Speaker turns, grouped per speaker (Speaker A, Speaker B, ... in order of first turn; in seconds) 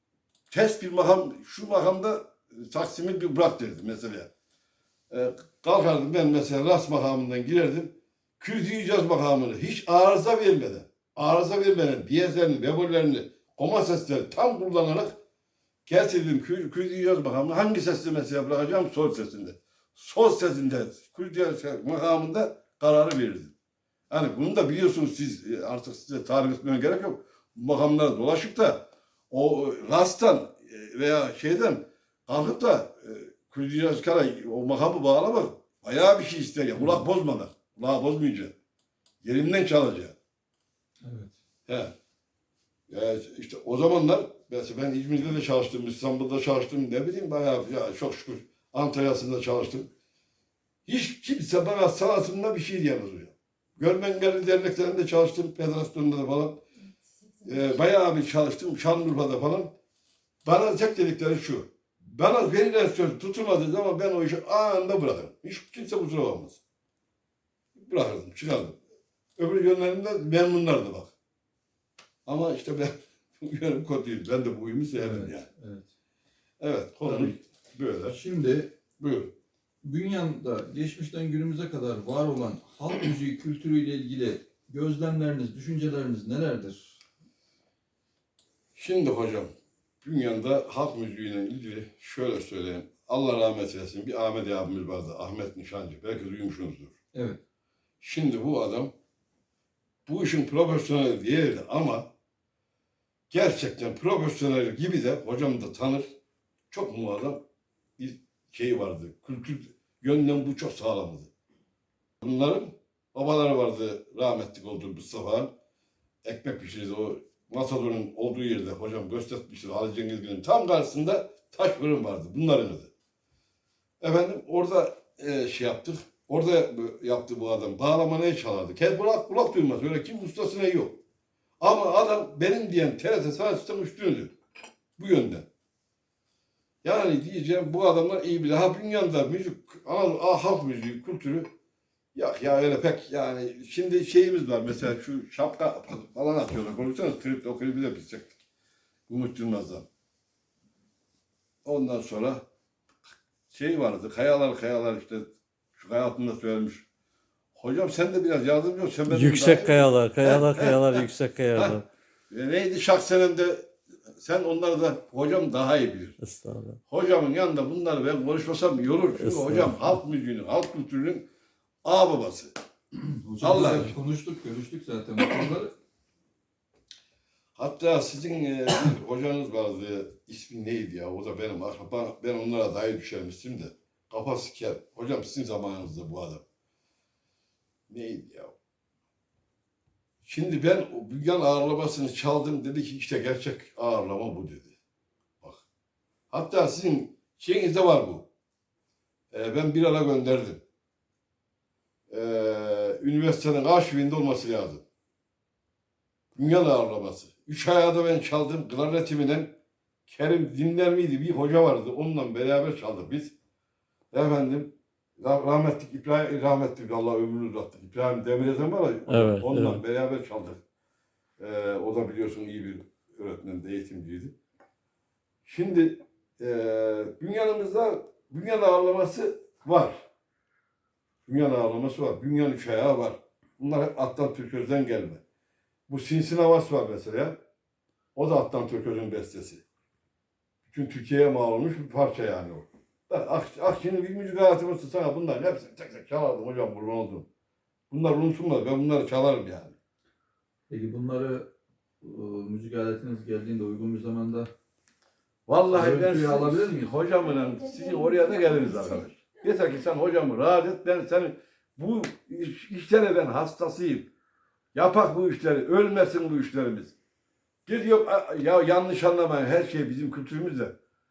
Speaker A: 0.5-4.3, 5.1-15.1, 15.8-23.5, 24.1-38.5, 39.2-40.1, 41.7-41.9, 42.9-49.9, 50.9-56.6, 57.4-59.7, 60.4-66.6, 67.7-68.8, 69.4-71.1, 72.2-75.5, 76.6-78.2, 79.0-79.3, 88.7-89.5, 90.0-96.9, 98.0-98.9, 100.0-102.1, 103.3-106.1, 106.7-107.4, 108.0-111.3, 112.2-115.5, 116.2-122.9, 124.0-131.0, 131.6-134.3, 135.0-135.4, 136.8-141.5, 142.1-148.4, 149.1-149.8, 151.6-152.4, 153.5-156.8, 157.5-161.8, 162.3-166.2, 166.9-171.2, 171.8-172.5, 173.4-173.9, 177.5-186.4, 187.9-188.5, 190.2-194.7, 196.3-198.3, 199.3-200.6, 202.1-204.8, 206.3-209.5, 210.1-213.3, 214.1-220.6, 221.4-224.3, 225.4-230.0, 231.2-235.2, 235.9-237.4, 238.1-239.6, 240.7-247.3, 247.9-249.7, 255.5-264.1, 264.7-266.9, 267.6-270.7
Speaker B: 41.0-41.3, 75.0-75.9, 77.0-77.3, 78.0-78.7, 79.8-87.0, 97.1-97.4, 173.1-175.7, 250.7-251.5, 252.0-254.5, 255.7-256.9
Speaker C: 159.1-161.8, 166.2-166.8, 169.2-170.0, 219.1-219.8